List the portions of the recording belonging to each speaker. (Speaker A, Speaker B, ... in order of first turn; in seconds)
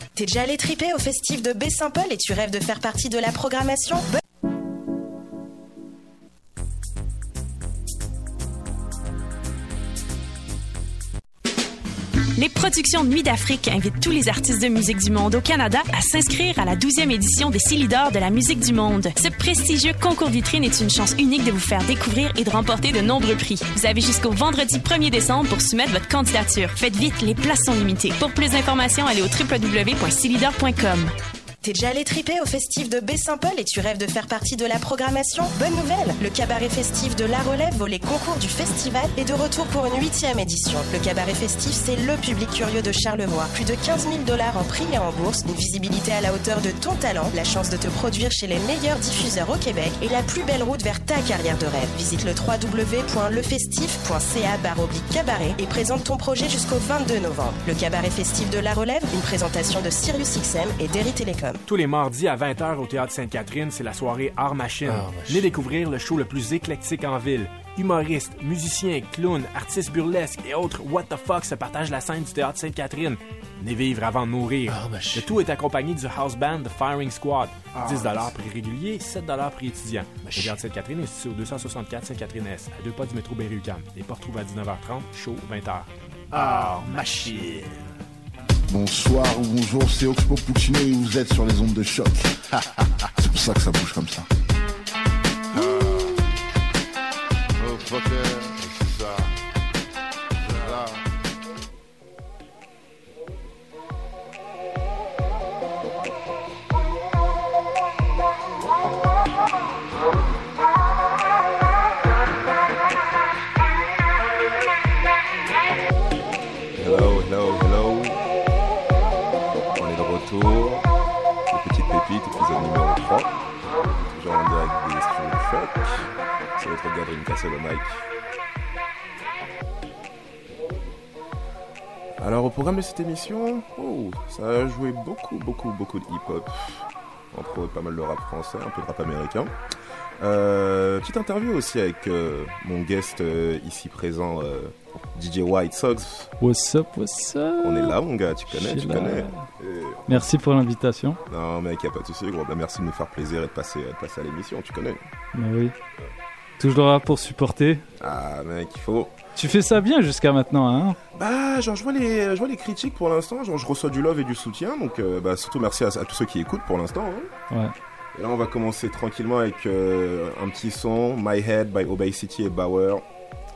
Speaker A: 0.1-4.0, 31.6-61.6
Speaker B: 12.4-31.1
Speaker C: 61.7-87.8
Speaker D: 88.9-92.1, 93.4-94.2, 98.8-99.1, 100.5-100.8
Speaker E: 116.8-118.2, 119.7-120.9, 121.5-123.3, 124.1-128.0, 132.2-139.5, 140.2-146.3, 147.6-150.3, 151.3-155.0, 158.0-159.1, 161.1-167.3, 168.1-173.0
Speaker F: 146.4-147.9, 148.5-149.4, 150.1-151.2, 155.3-155.7, 156.6-157.8, 159.3-161.0